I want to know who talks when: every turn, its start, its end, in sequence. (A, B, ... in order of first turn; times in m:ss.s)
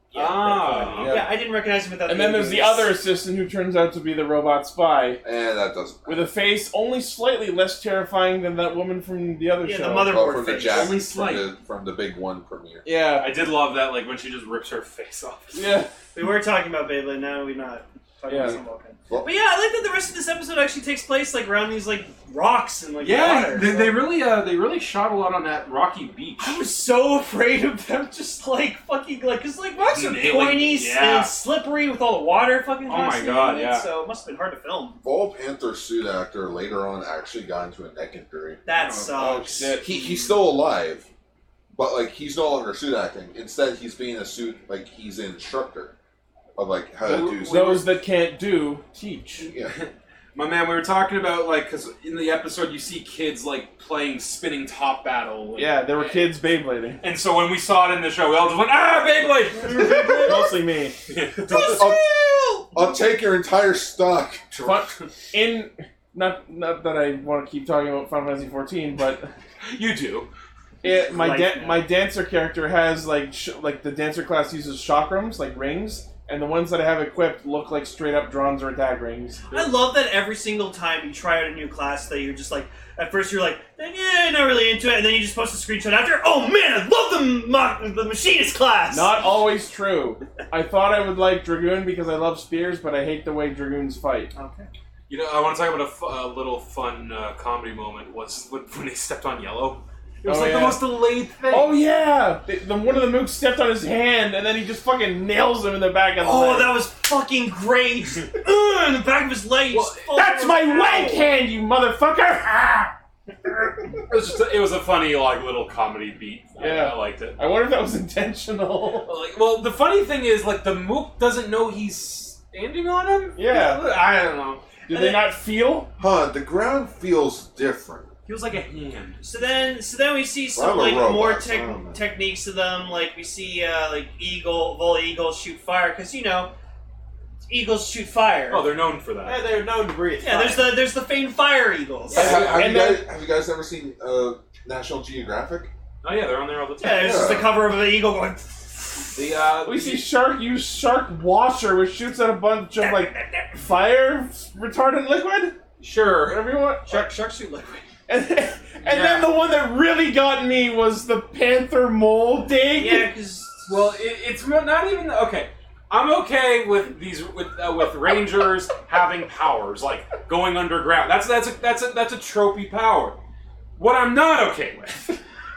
0:00.1-0:01.2 A
0:00.1-0:01.3 B
0:00.3-0:02.9 C
0:02.1-0:05.2 D
0:05.2-0:06.3 E
0:06.1-0:10.2 D
0:09.6-0:11.0 C
0:10.1-0:12.8 E
0:10.6-0:11.5 B
0:12.8-0:13.3 D
0:13.1-0:15.8 B
0:15.5-0:15.9 D
0:16.1-0:24.0 C
0:18.3-0:18.6 D
0:23.0-0:26.6 B
0:26.4-0:35.0 C
0:29.8-0:31.4 B
0:32.9-0:33.9 B
0:35.0-0:38.6 E
0:38.6-0:40.1 C
0:39.0-0:39.9 D
0:39.8-0:41.1 E
0:41.7-0:45.9 E
0:46.6-0:47.8 E
0:47.0-0:49.5 D
0:47.1-0:47.8 B
0:49.5-0:49.7 E
0:49.5-0:56.4 B
0:55.6-0:57.0 D
0:57.0-1:00.4 B
0:59.6-1:00.6 C
0:59.8-1:01.0 D
1:01.1-1:01.9 B
1:01.5-1:02.9 C
1:01.5-1:02.1 E
1:02.7-1:04.4 E
1:04.5-1:05.0 B
1:04.6-1:09.3 D
1:09.7-1:10.3 B
1:10.8-1:11.9 C
1:10.8-1:19.4 D
1:19.5-1:19.8 B
1:19.5-1:29.2 C
1:28.9-1:34.3 D
1:34.3-1:34.7 C
1:35.1-1:41.8 B
1:40.2-1:40.9 D
1:41.5-1:46.8 D
1:46.2-1:51.3 C
1:49.7-1:50.1 B
1:50.2-1:52.9 D
1:54.1-1:57.4 B
1:56.6-1:59.1 D
1:59.0-2:04.7 B
2:03.4-2:03.8 D
2:04.9-2:05.9 D
2:04.9-2:05.3 C
2:06.0-2:08.1 E
2:08.3-2:09.2 B
2:09.2-2:16.5 C
2:10.5-2:12.0 E
2:17.5-2:18.8 C
2:18.5-2:19.4 B
2:19.2-2:20.8 A
2:20.2-2:22.4 C
2:22.1-2:22.8 B
2:22.1-2:25.7 E
2:22.4-2:23.0 D
2:26.0-2:27.4 B
2:26.8-2:29.1 C
2:26.9-2:27.6 E
2:29.2-2:30.0 B
2:29.6-2:35.6 D
2:32.8-2:33.6 C
2:35.8-2:36.5 B
2:36.2-2:37.1 D
2:36.8-2:37.9 C
2:38.1-2:43.1 D
2:38.8-2:39.3 B
2:42.7-2:43.8 C
2:43.7-2:53.2 B
2:53.8-2:55.2 B